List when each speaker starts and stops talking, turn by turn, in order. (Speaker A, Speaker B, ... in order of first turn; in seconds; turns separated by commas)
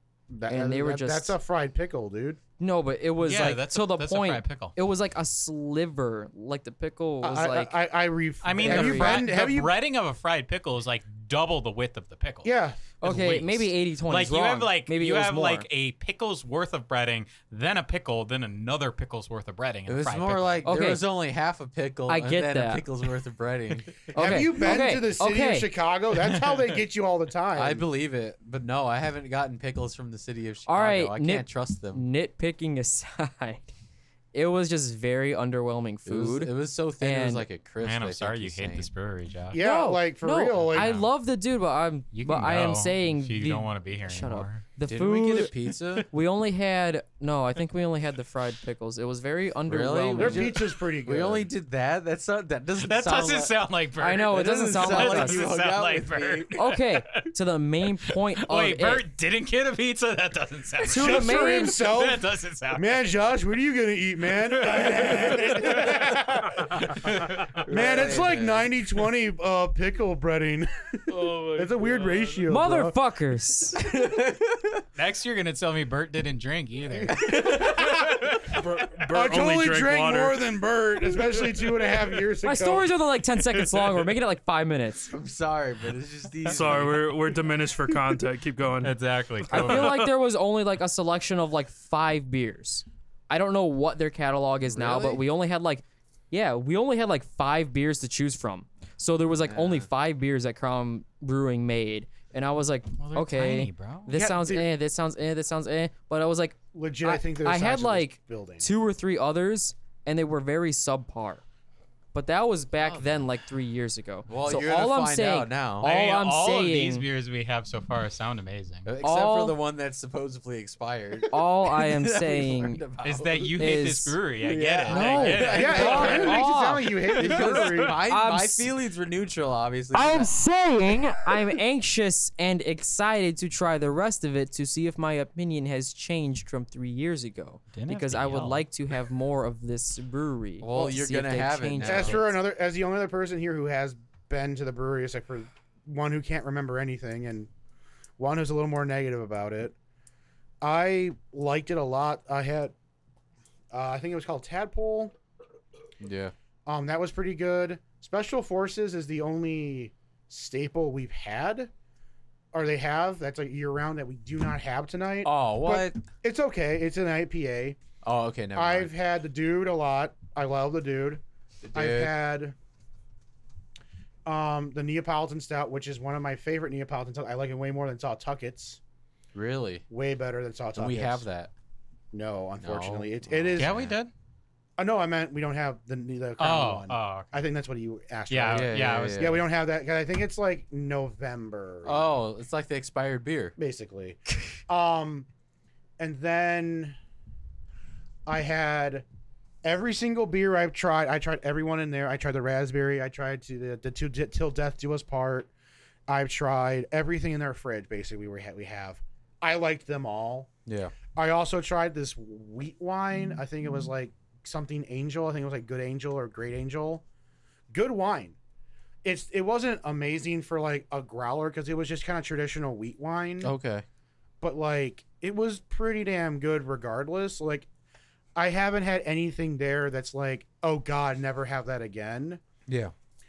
Speaker A: 0.3-2.4, Speaker B: 0.5-1.4, Speaker B: 2.6-7.7, Speaker C: 3.2-4.7, Speaker A: 7.2-9.7, Speaker C: 8.4-20.6, Speaker B: 8.6-9.2, Speaker A: 12.4-12.8, Speaker B: 13.0-15.7, Speaker D: 19.9-24.0, Speaker B: 20.6-21.0, Speaker B: 22.1-22.9, Speaker B: 24.1-25.7, Speaker A: 24.1-27.9, Speaker C: 26.2-26.8, Speaker D: 27.5-32.0, Speaker B: 30.6-33.7, Speaker B: 34.3-37.5, Speaker D: 36.0-38.9, Speaker C: 37.8-39.6, Speaker A: 39.5-41.0, Speaker B: 39.5-50.5, Speaker C: 40.5-41.1, Speaker C: 42.1-44.6, Speaker D: 44.9-46.1, Speaker D: 49.7-53.5, Speaker A: 50.2-51.5, Speaker C: 52.8-57.3, Speaker B: 54.0-55.5, Speaker D: 54.1-56.6, Speaker B: 56.5-59.0, Speaker C: 58.1-63.0, Speaker B: 60.8-61.8, Speaker A: 60.9-72.9, Speaker C: 64.4-67.6, Speaker D: 67.6-68.7, Speaker E: 71.1-72.5, Speaker B: 72.5-73.8, Speaker D: 73.9-74.7, Speaker C: 74.9-78.5, Speaker A: 76.9-78.3, Speaker E: 78.4-80.5, Speaker A: 79.1-82.9, Speaker B: 82.4-85.1, Speaker D: 85.1-87.3, Speaker E: 86.5-89.0, Speaker C: 88.8-90.1, Speaker E: 89.5-90.1, Speaker B: 89.5-111.4, Speaker D: 94.6-95.2, Speaker D: 99.4-99.9, Speaker C: 103.0-104.1, Speaker A: 104.1-104.7, Speaker A: 106.7-108.7, Speaker B: 112.1-117.0, Speaker D: 112.8-113.2, Speaker D: 114.3-115.9, Speaker C: 115.8-118.9, Speaker D: 118.8-123.8, Speaker B: 119.0-119.6, Speaker B: 121.3-122.8, Speaker C: 123.0-126.4, Speaker B: 123.6-124.2, Speaker D: 124.4-126.4, Speaker B: 124.9-126.9, Speaker A: 125.4-128.0, Speaker D: 127.1-130.3, Speaker C: 127.3-127.7, Speaker B: 128.0-128.7, Speaker B: 129.9-142.4, Speaker C: 137.7-138.6, Speaker D: 140.6-142.3, Speaker A: 141.8-147.5, Speaker A: 148.2-149.7, Speaker A: 150.6-152.7, Speaker A: 153.7-155.1, Speaker D: 156.0-156.3, Speaker A: 156.7-161.7, Speaker A: 162.5-167.8, Speaker D: 165.2-166.0, Speaker D: 168.0-168.9, Speaker A: 168.5-171.2, Speaker D: 171.6-172.1, Speaker A: 171.7-172.5, Speaker A: 174.2-178.8, Speaker D: 179.3-179.8, Speaker A: 179.9-181.2, Speaker D: 180.7-181.5, Speaker A: 182.1-183.7, Speaker D: 182.6-184.0, Speaker C: 183.6-184.1, Speaker A: 184.8-192.2, Speaker C: 186.4-187.4, Speaker C: 188.3-189.3, Speaker D: 188.5-189.4, Speaker D: 191.8-193.6, Speaker A: 193.6-195.3, Speaker A: 196.0-196.9, Speaker A: 198.2-199.0, Speaker A: 199.6-205.5, Speaker A: 206.1-210.5, Speaker D: 210.7-210.9, Speaker A: 211.1-217.0, Speaker A: 217.7-218.4, Speaker A: 219.0-223.5, Speaker D: 223.4-223.8, Speaker A: 224.4-227.7, Speaker A: 228.3-232.4, Speaker D: 232.7-232.9